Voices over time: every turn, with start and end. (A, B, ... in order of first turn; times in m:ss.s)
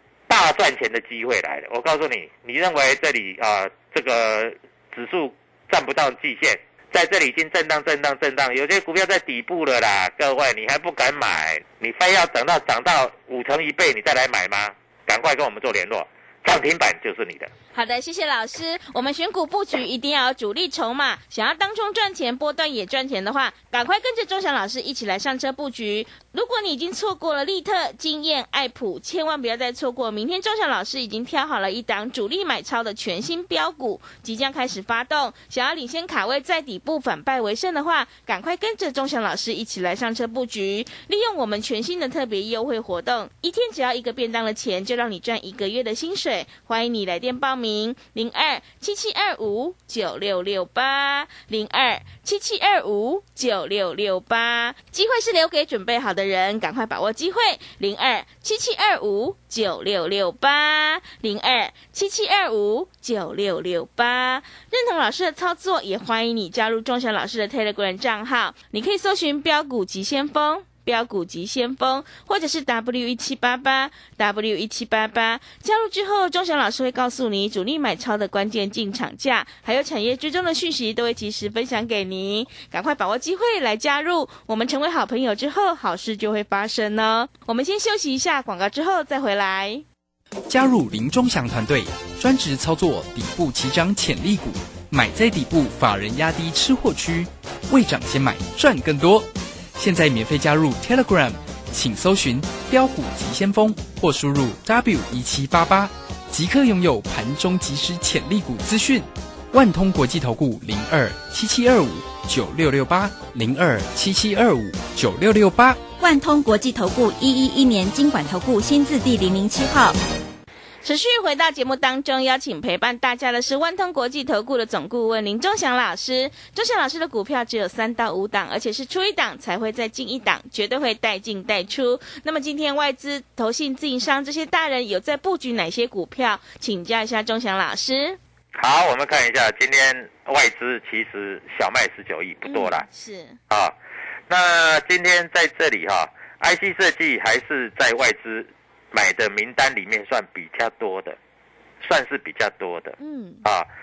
0:00.3-0:17.5 A
0:17.7-1:29.8 B
1:30.5-1:55.8 C
1:56.0-2:00.0 D
2:00.8-2:18.2 B
2:18.5-2:22.9 A
2:22.4-2:23.4 B
2:23.5-2:23.8 A
2:24.3-2:31.2 A
2:31.8-2:33.7 A
2:33.0-2:33.4 B